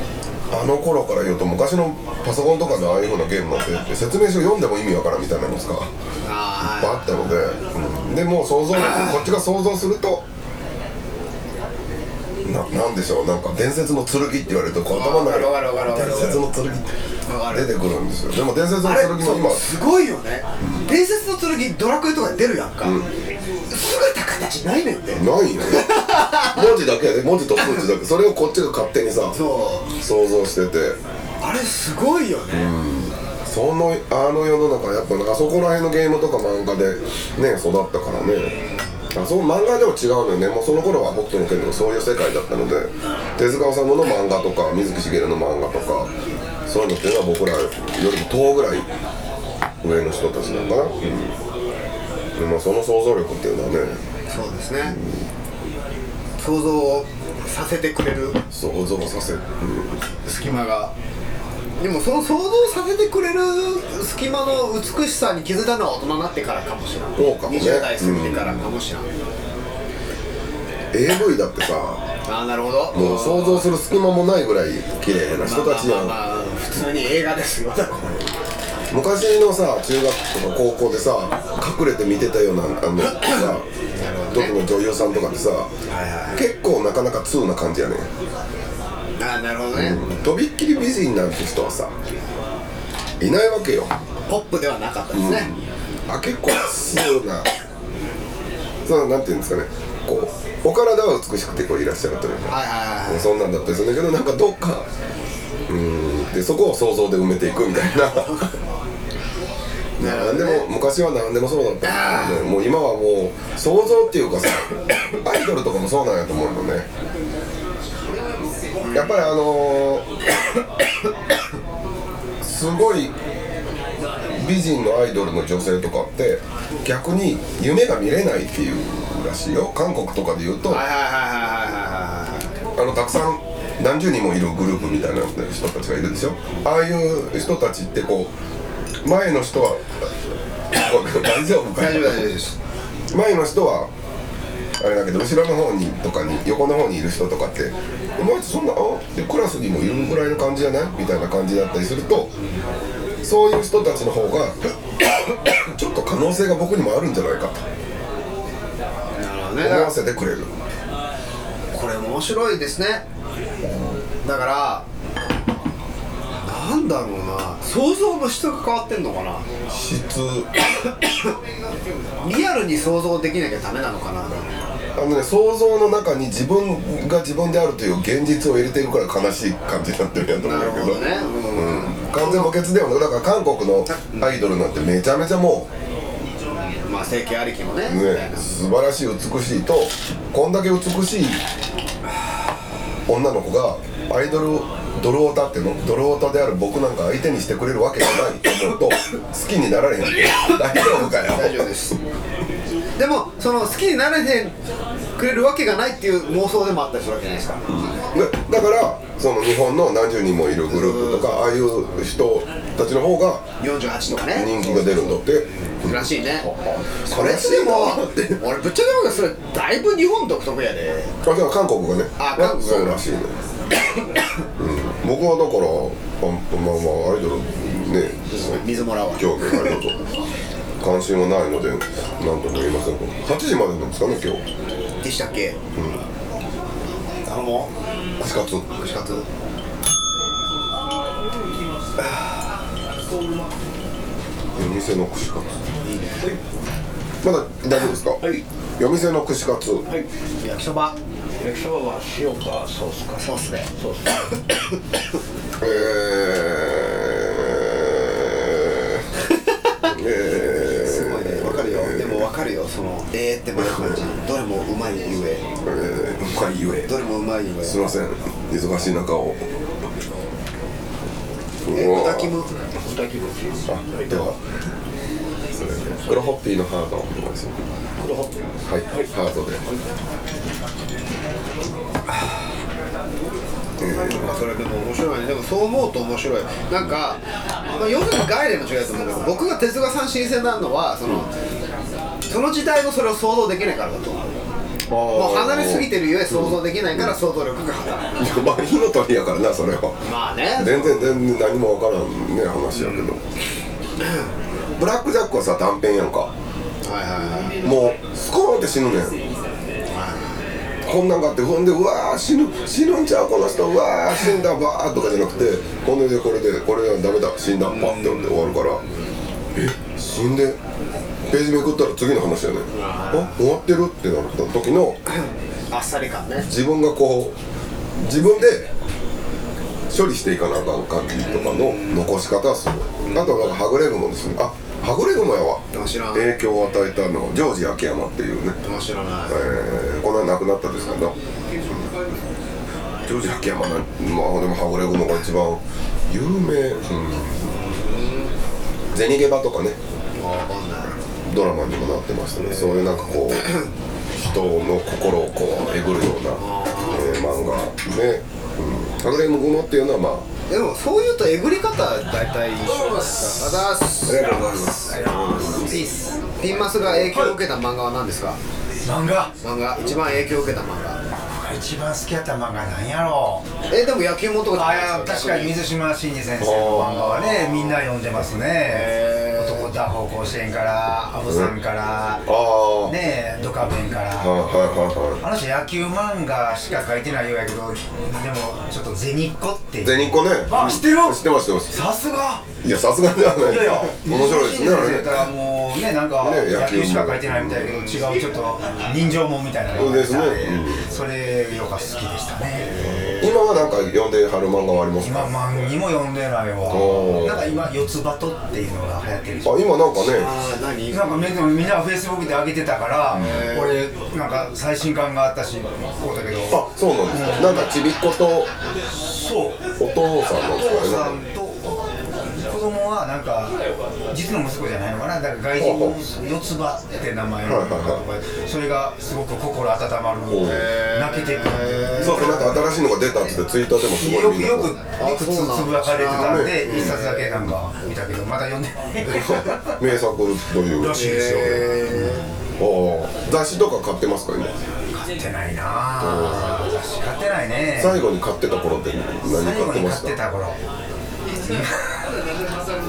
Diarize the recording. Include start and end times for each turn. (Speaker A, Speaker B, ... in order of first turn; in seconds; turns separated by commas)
Speaker A: 0.5-5.9, Speaker B: 6.2-7.3, Speaker A: 6.7-10.2, Speaker B: 8.8-9.2, Speaker A: 12.4-16.9, Speaker B: 14.9-16.4, Speaker B: 17.3-17.7, Speaker A: 17.5-19.6, Speaker B: 18.8-23.0, Speaker A: 22.8-23.1, Speaker B: 23.7-26.7, Speaker A: 25.1-29.4, Speaker B: 27.6-27.9, Speaker B: 29.3-29.9, Speaker A: 30.0-31.0, Speaker B: 31.4-32.7, Speaker A: 32.5-38.5, Speaker A: 39.1-46.1, Speaker A: 46.7-48.9, Speaker A: 49.8-51.4, Speaker B: 50.4-51.2, Speaker A: 52.4-54.0, Speaker B: 54.3-55.0, Speaker A: 54.8-55.2, Speaker B: 56.4-58.4, Speaker A: 58.5-60.0, Speaker B: 60.2-60.9, Speaker B: 61.8-69.1, Speaker A: 67.2-68.7, Speaker A: 70.9-72.0, Speaker B: 72.3-73.7, Speaker A: 72.9-76.2, Speaker B: 75.4-78.3, Speaker A: 78.9-83.7, Speaker B: 83.9-84.6, Speaker A: 84.3-85.7, Speaker B: 85.9-86.4, Speaker A: 86.3-88.1, Speaker B: 89.2-90.3, Speaker A: 89.7-91.9, Speaker A: 93.2-93.9, Speaker B: 94.3-95.5, Speaker A: 95.1-97.5, Speaker A: 98.8-104.9, Speaker B: 102.5-103.3, Speaker A: 105.7-108.5, Speaker B: 108.0-108.4, Speaker A: 110.0-116.9, Speaker B: 110.0-110.7, Speaker B: 111.8-112.5, Speaker B: 118.8-119.2, Speaker A: 118.9-120.1, Speaker A: 122.4-123.1, Speaker A: 124.3-130.8, Speaker B: 130.7-132.5, Speaker A: 132.8-138.3, Speaker A: 139.0-140.1, Speaker A: 140.7-142.3, Speaker B: 141.7-142.6, Speaker A: 143.1-143.9, Speaker A: 144.8-152.3, Speaker B: 152.4-152.7, Speaker A: 153.2-154.6, Speaker A: 155.5-157.6, Speaker B: 159.1-159.9, Speaker A: 159.6-160.5, Speaker B: 161.7-163.1, Speaker B: 164.2-164.9, Speaker B: 166.3-169.5, Speaker A: 169.7-170.5, Speaker B: 170.8-171.3, Speaker B: 172.2-174.5, Speaker A: 174.9-185.7, Speaker B: 180.4-182.6, Speaker B: 183.9-184.4, Speaker B: 186.5-188.5, Speaker A: 187.9-191.4, Speaker A: 193.1-201.7, Speaker B: 200.7-202.0, Speaker B: 203.0-204.6, Speaker B: 205.2-207.7, Speaker A: 207.7-213.5, Speaker B: 210.7-211.8, Speaker B: 213.6-216.5, Speaker A: 214.2-218.4, Speaker B: 217.1-221.2, Speaker A: 221.2-223.3, Speaker B: 222.2-223.1, Speaker A: 224.6-230.0, Speaker B: 228.3-229.8, Speaker A: 230.8-234.4, Speaker B: 235.0-235.6, Speaker A: 235.8-236.0, Speaker B: 237.2-237.7, Speaker A: 238.2-238.7, Speaker B: 238.8-239.3, Speaker B: 242.0-242.2, Speaker A: 244.6-245.5, Speaker B: 245.8-246.3, Speaker A: 247.2-248.2, Speaker A: 248.8-249.9, Speaker B: 250.4-250.9, Speaker C: 251.4-254.4, Speaker B: 253.2-253.7, Speaker A: 255.6-259.1, Speaker A: 259.8-262.3, Speaker B: 260.8-265.4, Speaker A: 263.6-264.0, Speaker A: 265.6-266.9, Speaker B: 266.9-267.8, Speaker A: 267.6-269.5, Speaker A: 271.6-272.4, Speaker B: 271.7-272.5, Speaker C: 272.8-274.4, Speaker A: 273.7-274.4, Speaker A: 275.5-277.5, Speaker C: 278.0-279.1, Speaker A: 278.7-279.6, Speaker A: 283.8-284.4, Speaker B: 283.9-291.3, Speaker B: 292.3-294.4, Speaker A: 294.9-297.1, Speaker B: 295.1-298.2, Speaker A: 298.2-303.2, Speaker B: 300.0-301.2, Speaker B: 302.7-303.1, Speaker B: 304.0-304.3, Speaker A: 304.8-306.3, Speaker B: 306.8-307.6, Speaker A: 307.6-309.2, Speaker B: 309.9-310.4, Speaker A: 310.8-318.8, Speaker B: 317.6-318.8, Speaker A: 319.6-320.6, Speaker A: 321.3-325.0, Speaker B: 322.7-323.4, Speaker B: 325.1-326.5, Speaker A: 326.4-327.4, Speaker A: 328.0-328.7, Speaker A: 329.9-338.6, Speaker B: 331.2-332.2, Speaker B: 333.0-333.6, Speaker B: 335.7-336.3, Speaker B: 338.6-339.5, Speaker A: 339.3-341.1, Speaker A: 343.1-347.5, Speaker B: 347.4-348.4, Speaker A: 348.9-349.8, Speaker B: 350.1-351.0, Speaker A: 351.2-353.6, Speaker B: 352.4-353.7, Speaker A: 354.2-360.2, Speaker B: 356.4-357.4, Speaker B: 360.5-365.9, Speaker D: 362.9-366.3, Speaker A: 365.2-365.7, Speaker B: 366.4-368.4, Speaker D: 367.1-367.3, Speaker D: 368.8-369.4, Speaker B: 369.4-371.0, Speaker D: 371.3-373.5, Speaker B: 373.7-375.6, Speaker D: 374.5-382.2, Speaker A: 376.4-376.9, Speaker B: 376.8-377.9, Speaker B: 378.6-379.7, Speaker A: 381.3-381.5, Speaker A: 382.3-382.9, Speaker D: 382.9-384.5, Speaker A: 384.2-385.2, Speaker D: 385.2-392.4, Speaker A: 389.8-391.8, Speaker A: 392.6-395.3, Speaker D: 393.4-402.8, Speaker A: 396.2-397.8, Speaker A: 399.8-400.9, Speaker B: 402.6-403.4, Speaker A: 403.2-405.5, Speaker D: 405.0-409.8, Speaker A: 406.7-407.6, Speaker A: 409.4-410.3, Speaker B: 410.0-411.3, Speaker D: 410.9-417.8, Speaker B: 413.1-413.8, Speaker A: 416.5-418.5, Speaker D: 418.9-419.6, Speaker A: 419.8-421.2, Speaker D: 420.4-423.6, Speaker D: 424.1-432.8, Speaker A: 425.6-426.0, Speaker A: 427.4-428.0, Speaker A: 430.3-430.7, Speaker B: 430.4-432.5, Speaker A: 432.0-434.7, Speaker D: 433.8-439.8, Speaker B: 435.0-437.4, Speaker A: 436.1-437.1, Speaker A: 439.1-441.0, Speaker D: 440.7-442.3, Speaker B: 440.9-442.3, Speaker A: 442.6-444.5, Speaker D: 445.0-448.0, Speaker A: 446.0-446.6, Speaker A: 447.8-450.2, Speaker D: 449.2-450.6, Speaker D: 451.4-451.9